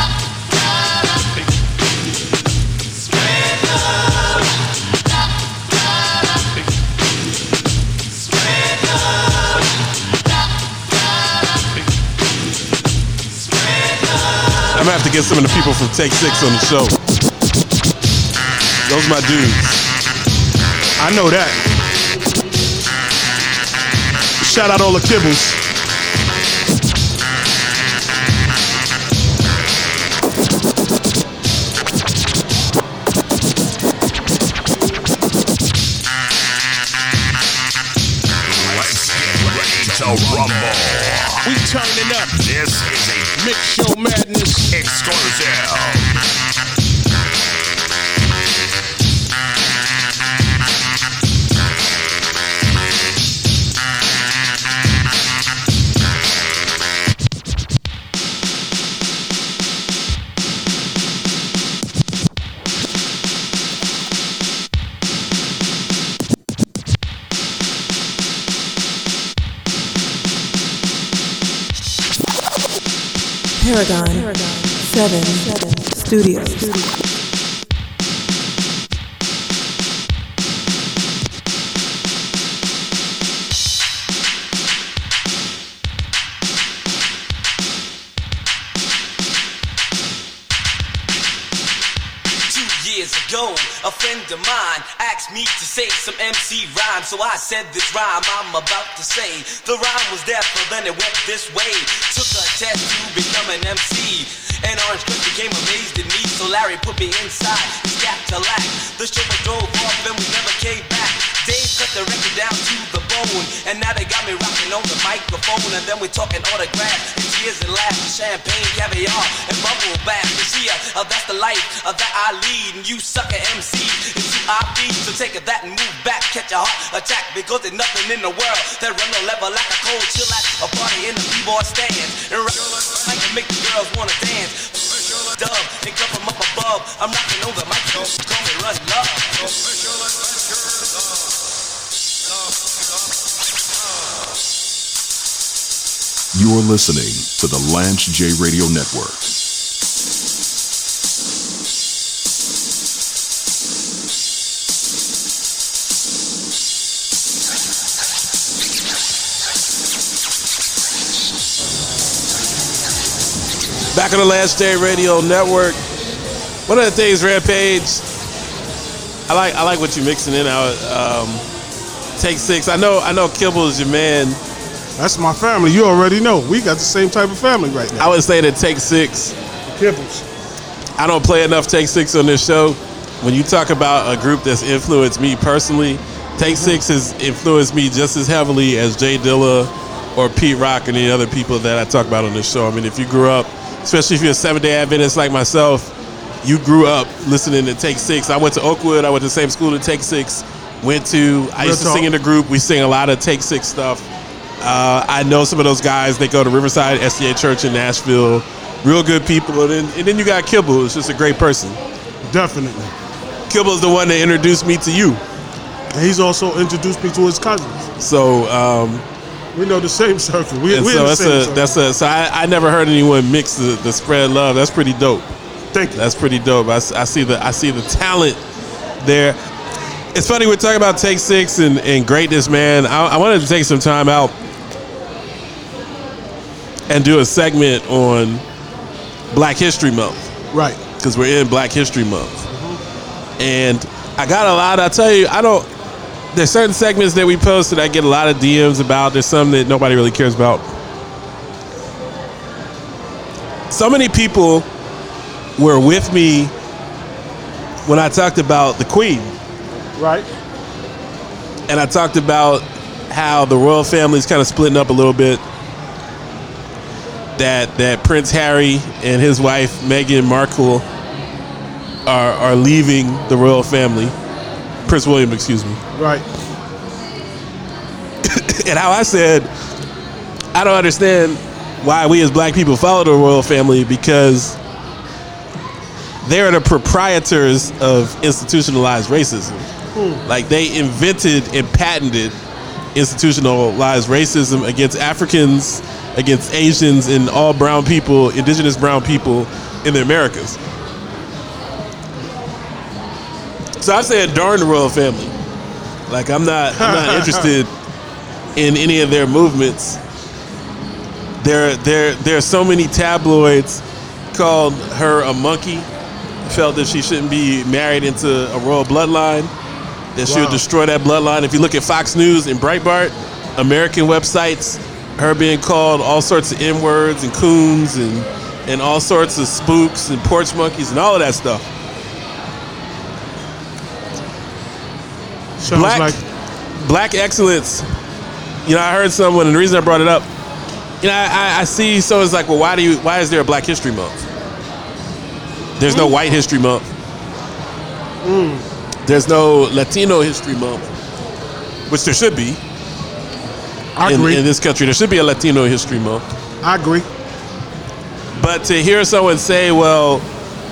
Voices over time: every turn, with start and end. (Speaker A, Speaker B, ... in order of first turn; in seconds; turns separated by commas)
Speaker A: 14.7-17.0, Speaker A: 18.9-19.8, Speaker B: 21.0-21.6, Speaker B: 24.4-25.6, Speaker C: 38.5-41.5, Speaker B: 41.4-42.3, Speaker C: 42.3-43.3, Speaker B: 43.3-44.7, Speaker C: 44.7-46.1, Speaker D: 73.6-77.0, Speaker E: 92.5-139.6, Speaker F: 146.3-149.3, Speaker A: 163.9-165.8, Speaker A: 166.7-168.0, Speaker A: 169.3-171.4, Speaker A: 172.2-174.4, Speaker B: 175.0-178.1, Speaker A: 177.9-179.3, Speaker B: 179.7-180.2, Speaker A: 181.0-204.1, Speaker B: 201.6-202.1, Speaker A: 204.6-211.8, Speaker B: 212.2-212.9, Speaker A: 213.5-215.2, Speaker B: 215.9-217.9, Speaker A: 218.0-219.0, Speaker B: 219.5-221.7, Speaker A: 220.7-225.3, Speaker B: 225.7-226.0, Speaker A: 225.9-228.4, Speaker A: 229.0-229.4, Speaker A: 230.1-234.3, Speaker A: 236.9-238.4, Speaker A: 239.3-240.3, Speaker B: 240.5-240.8, Speaker A: 241.0-242.5, Speaker B: 242.5-242.8, Speaker A: 243.4-245.7, Speaker A: 246.3-250.6, Speaker A: 253.7-254.7, Speaker A: 255.6-256.5, Speaker A: 257.9-259.3, Speaker B: 259.9-260.3, Speaker A: 261.7-265.4, Speaker A: 267.4-270.9, Speaker A: 272.1-274.1, Speaker A: 274.9-275.8, Speaker B: 275.9-276.2, Speaker A: 278.2-279.5, Speaker A: 280.5-284.6, Speaker A: 286.2-289.7, Speaker B: 289.9-290.2, Speaker A: 290.2-292.4, Speaker A: 292.9-300.6, Speaker A: 303.8-305.3, Speaker A: 306.1-307.7, Speaker B: 306.8-307.5, Speaker A: 308.6-310.0, Speaker A: 311.4-315.9, Speaker A: 316.4-319.5, Speaker A: 320.1-331.7, Speaker B: 320.2-320.6, Speaker B: 335.6-336.2, Speaker A: 335.7-336.1, Speaker A: 336.8-337.9, Speaker A: 338.6-340.3, Speaker A: 341.0-344.2, Speaker A: 345.8-346.9, Speaker B: 345.9-346.1, Speaker B: 348.2-348.6, Speaker A: 349.1-350.9, Speaker A: 351.9-352.6, Speaker B: 353.9-354.4, Speaker A: 354.0-356.2, Speaker B: 356.6-357.1, Speaker A: 358.4-360.3